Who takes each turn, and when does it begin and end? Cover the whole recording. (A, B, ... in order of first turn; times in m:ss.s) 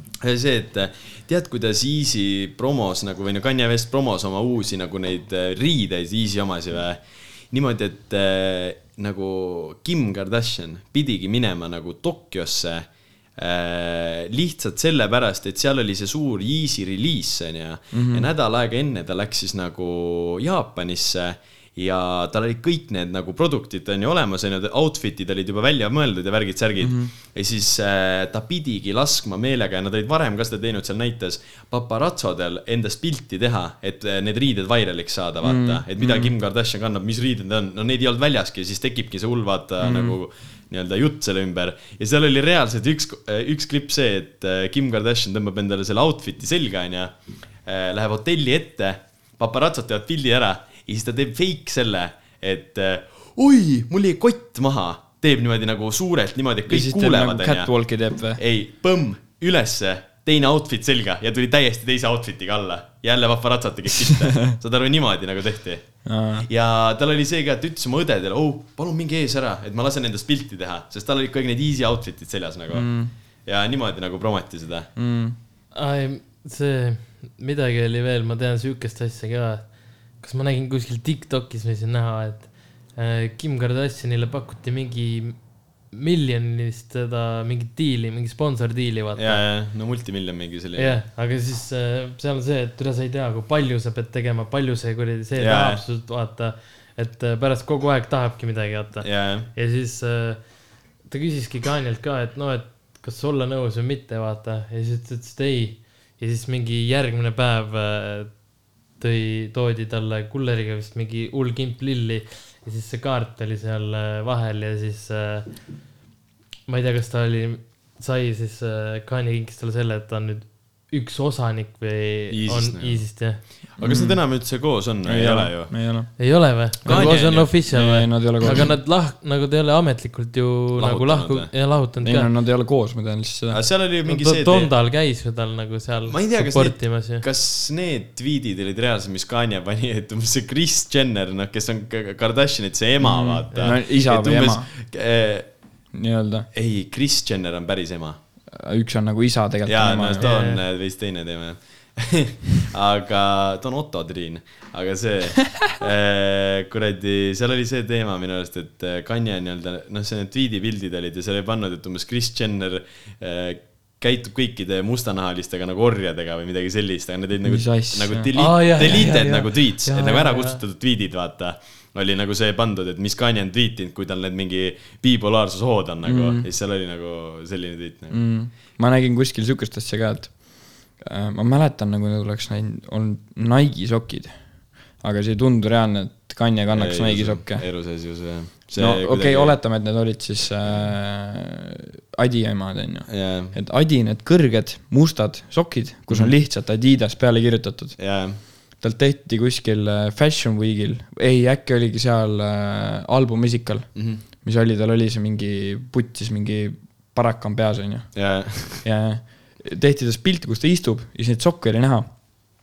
0:00.2-0:47.1 A
0:17.9-0:18.3 B
0:26.8-0:27.1 B
0:35.4-0:36.3 B
0:39.8-0:40.2 B
0:47.6-0:57.7 A
0:56.7-0:58.4 B
0:58.4-1:05.9 A
1:04.1-1:04.5 B
1:06.0-1:06.5 B
1:06.4-1:12.9 A
1:12.7-1:13.1 B
1:13.4-1:14.9 A
1:15.0-1:15.4 B
1:15.7-1:25.4 C
1:25.9-1:29.4 C
1:29.1-1:31.0 A
1:30.8-1:40.4 C
1:35.4-1:35.8 A
1:39.0-1:39.5 A
1:41.1-1:48.3 C
1:49.0-1:55.5 C
1:56.7-2:03.4 C
2:02.3-2:03.0 A
2:03.8-2:05.7 A
2:03.8-2:04.2 B
2:05.0-2:06.1 B
2:06.2-2:12.3 C
2:06.8-2:08.7 B
2:06.8-2:07.5 A
2:10.8-2:11.5 A
2:12.0-2:13.6 B
2:13.5-2:14.7 A
2:14.1-2:17.2 C
2:16.0-2:25.5 A
2:23.0-2:24.7 B
2:25.9-2:26.5 B
2:26.5-2:28.2 A
2:28.5-2:30.3 B
2:29.6-2:58.2 A
2:30.2-2:30.6 C
2:47.4-2:48.3 B
2:48.3-2:50.6 C
2:56.0-2:56.5 B
2:58.1-3:07.6 B
3:06.7-3:09.6 A
3:08.8-3:32.2 B
3:10.6-3:10.9 A
3:13.1-3:13.5 A
3:16.1-3:16.3 A
3:18.0-3:18.4 A
3:23.9-3:24.2 A
3:28.1-3:28.8 A